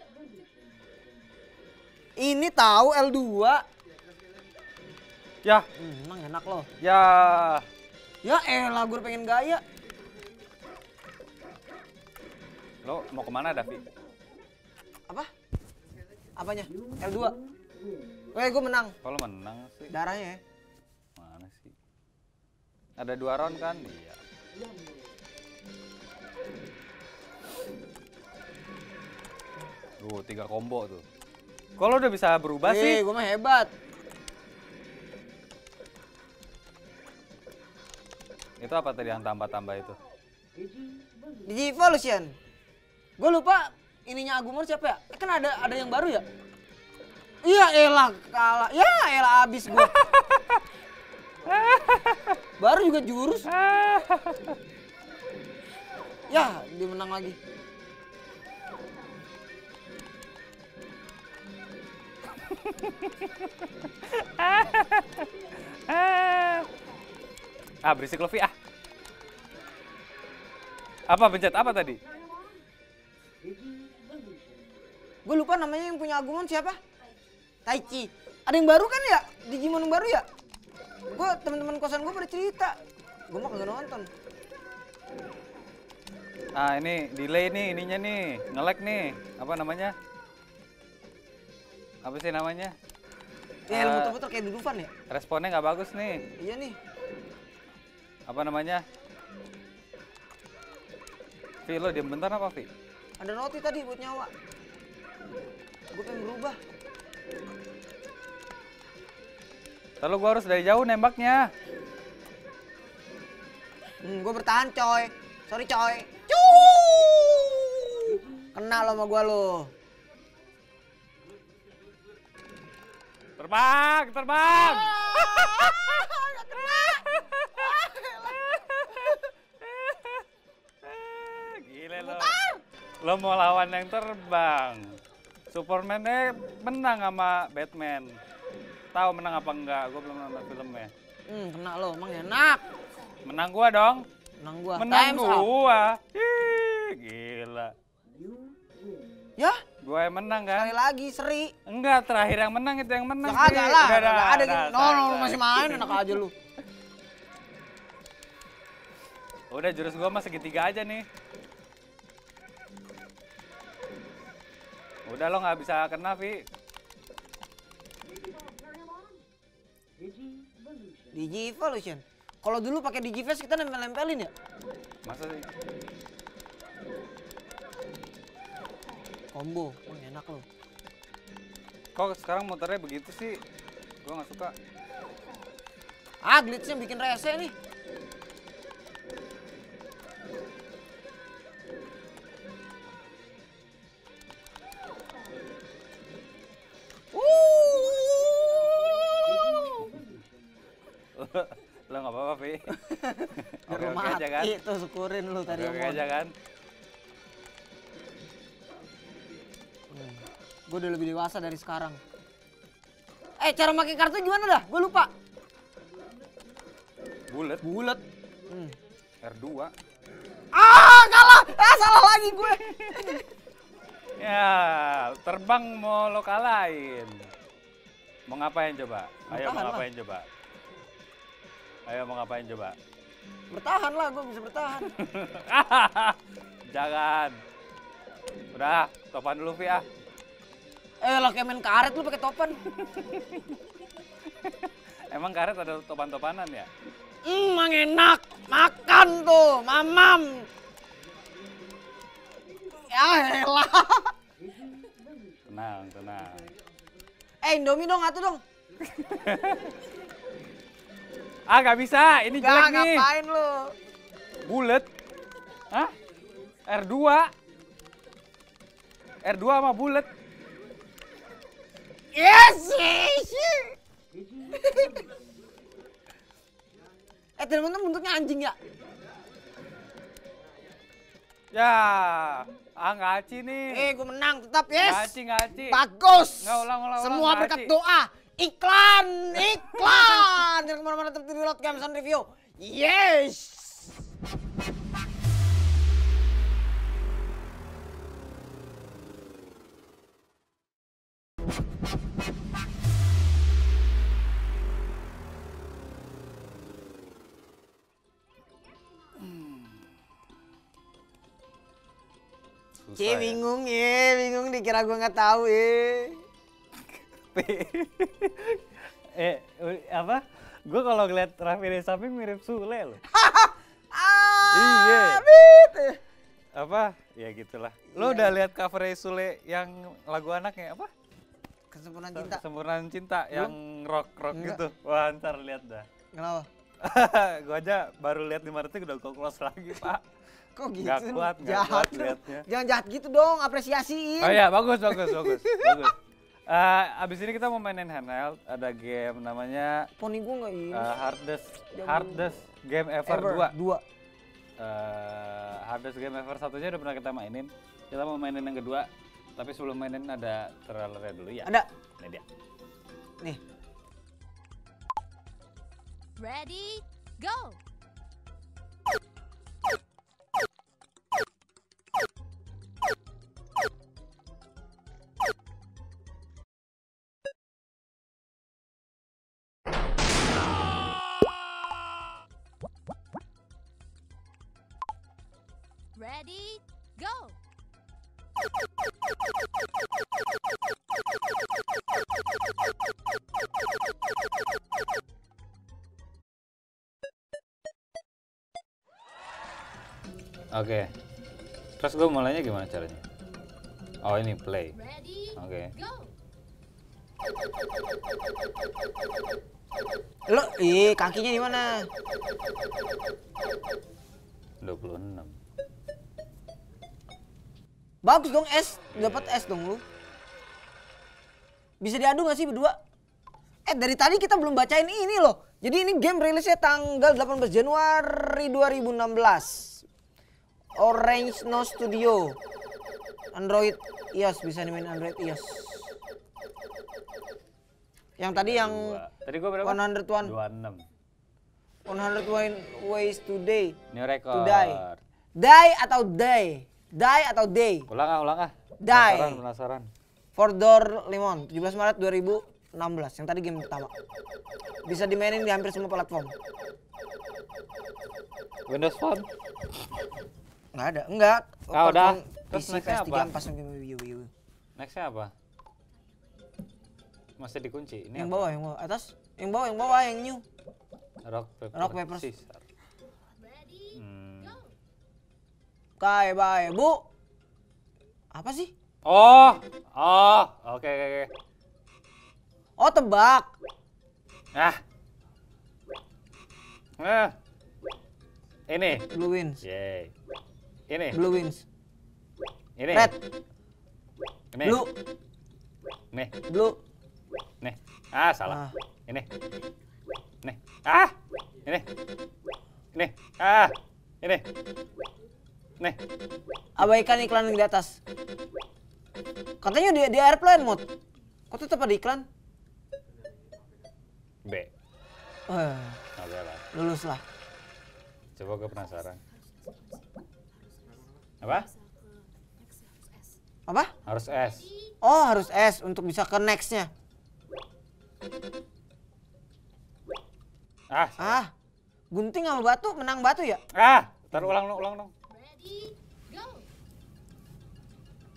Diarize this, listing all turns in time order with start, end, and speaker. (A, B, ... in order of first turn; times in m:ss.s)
0:02.2-0:03.6 A
0:05.8-0:06.7 A
0:06.8-0:07.6 B
0:08.2-0:09.6 A
0:12.8-0:13.8 B
0:16.4-0:17.4 A
0:18.3-0:18.9 A
0:19.0-0:19.9 B
0:19.9-0:20.4 A
0:21.2-0:21.7 B
0:23.0-0:24.2 B
0:30.0-0:31.0 B
0:31.8-0:33.0 B
0:32.6-0:33.7 A
0:38.6-0:40.0 B
0:41.4-0:42.3 A
0:43.2-0:46.2 A
0:47.4-0:49.9 A
0:49.8-0:50.6 B
0:51.5-0:52.4 B
0:52.6-0:53.5 A
0:53.5-0:54.5 B
0:56.3-0:57.4 A
1:02.5-1:06.7 B
1:07.8-1:08.5 B
1:11.1-1:12.0 B
1:15.2-1:16.8 A
1:17.6-1:20.2 A
1:21.1-1:22.8 A
1:23.3-1:24.1 A
1:26.5-1:29.9 B
1:32.0-1:32.7 B
1:33.7-1:34.9 A
1:33.7-1:34.1 B
1:35.1-1:36.2 B
1:36.4-1:36.8 A
1:38.3-1:38.8 B
1:41.6-1:42.7 B
1:43.2-1:44.3 A
1:45.9-1:46.6 A
1:50.0-1:51.5 B
1:54.0-1:59.7 A
2:03.4-2:06.1 B
2:04.4-2:09.2 A
2:06.9-2:07.7 B
2:08.2-2:10.2 B
2:10.8-2:12.4 B
2:12.0-2:12.6 A
2:13.0-2:15.0 B
2:15.5-2:18.2 B
2:18.9-2:20.9 B
2:21.3-2:22.6 A
2:23.2-2:24.1 B
2:24.4-2:25.5 A
2:24.8-2:27.7 B
2:29.8-2:30.7 B
2:30.5-2:31.5 A
2:31.7-2:36.0 B
2:33.2-2:36.3 A
2:39.5-2:41.0 B
2:45.1-2:46.4 B
2:51.1-2:54.3 A
2:55.0-2:55.4 B
2:59.3-3:00.4 A
3:01.9-3:03.4 B
3:04.0-3:04.5 B
3:06.2-3:07.5 A
3:17.1-3:19.8 A
3:21.2-3:22.8 B
3:22.8-3:26.0 A
3:23.4-3:24.5 B
3:25.5-3:26.3 B
3:29.9-3:32.0 A
3:33.4-3:35.1 A
3:37.3-3:37.6 B
3:37.6-3:38.8 A
3:39.2-3:39.7 B
3:40.5-3:43.2 A
3:42.7-3:43.1 B
3:44.2-3:47.3 B
3:48.3-3:50.3 B
3:49.3-3:49.8 A
3:51.9-3:52.8 B
3:53.5-3:54.9 A
3:54.9-3:57.4 B
3:58.5-3:59.8 B
4:01.0-4:02.6 A
4:02.8-4:03.6 B
4:04.4-4:06.7 B
4:07.2-4:10.5 A
4:12.7-4:14.1 A
4:15.5-4:16.5 B
4:17.4-4:18.4 A
4:18.9-4:19.7 B
4:21.5-4:23.1 B
4:22.3-4:23.7 A
4:24.4-4:24.9 B
4:26.6-4:27.3 B
4:29.2-4:30.1 B
4:32.1-4:33.8 A
4:34.4-4:35.1 A
4:37.4-4:38.6 A
4:41.5-4:43.9 B
4:43.7-4:54.0 A
4:44.8-4:45.8 B
4:46.4-4:47.7 B
5:09.2-5:09.9 B
5:12.8-5:13.4 B
5:13.0-5:16.2 A
5:16.9-5:23.0 B
5:23.1-5:26.0 A
5:24.5-5:25.2 B
5:26.6-5:30.9 B
5:27.9-5:28.3 A
5:31.7-5:32.4 A
5:32.1-5:35.9 B
5:33.3-5:33.6 A
5:34.3-5:34.6 A
5:36.1-5:36.5 A
5:36.8-5:40.0 B
5:40.6-5:45.9 A
5:40.8-5:42.4 B
5:44.2-5:46.0 B
5:46.5-5:49.9 B
5:50.0-5:50.9 A
5:50.7-5:53.5 B
5:51.7-5:52.2 A
5:53.0-5:53.8 A
5:54.6-6:02.2 B
6:06.2-6:07.6 C
6:25.9-6:27.4 C
6:40.5-6:40.9 B
6:41.8-6:43.0 B
6:44.0-6:44.7 B
6:44.8-6:46.1 C
6:45.4-6:45.7 B
6:50.3-6:51.9 A
6:54.6-6:55.3 B
6:58.0-6:59.8 A
6:58.9-6:59.5 B
7:01.8-7:02.8 A
7:03.6-7:09.8 A
7:10.8-7:12.4 A
7:13.3-7:15.9 A
7:18.2-7:19.0 A
7:18.3-7:20.8 B
7:19.6-7:20.3 A
7:21.9-7:23.8 A
7:23.9-7:25.0 B
7:24.3-7:24.8 A
7:25.4-7:27.9 A
7:27.9-7:29.9 B
7:28.8-7:29.4 A
7:30.4-7:33.9 A
7:34.8-7:36.3 A
7:38.7-7:39.2 B
7:40.7-7:44.3 A
7:41.7-7:43.3 B
7:44.8-7:45.3 B
7:47.4-7:48.5 B
7:48.2-7:50.4 A
7:51.2-7:52.6 B
7:51.7-7:52.3 A
7:53.4-7:54.7 C
7:53.9-7:54.6 B
7:56.0-7:57.0 A
7:58.3-7:58.7 A
7:59.0-8:01.3 B
8:02.8-8:03.5 A
8:07.0-8:07.3 B
8:08.7-8:09.1 B
8:09.1-8:09.6 A
8:09.6-8:10.1 B
8:10.9-8:11.2 B
8:11.1-8:11.6 A
8:12.8-8:13.1 B
8:12.9-8:13.2 A
8:14.5-8:14.8 B
8:14.6-8:14.9 A
8:16.5-8:16.8 A
8:17.6-8:19.2 B
8:18.4-8:18.7 A
8:20.4-8:21.8 B
8:22.9-8:24.4 B
8:26.8-8:28.0 A
8:29.6-8:30.8 A
8:31.5-8:32.2 A
8:34.4-8:34.7 B
8:35.5-8:36.0 A
8:36.2-8:36.6 B
8:36.7-8:37.2 A
8:38.4-8:39.2 B
8:41.4-8:41.7 B
8:43.7-8:43.9 A
8:44.0-8:44.7 B
8:44.3-8:44.9 C
8:45.0-8:46.9 A
8:50.9-8:51.4 B
8:51.2-8:51.5 A
8:52.1-8:53.6 A
8:53.7-8:55.1 B
8:55.3-8:56.7 C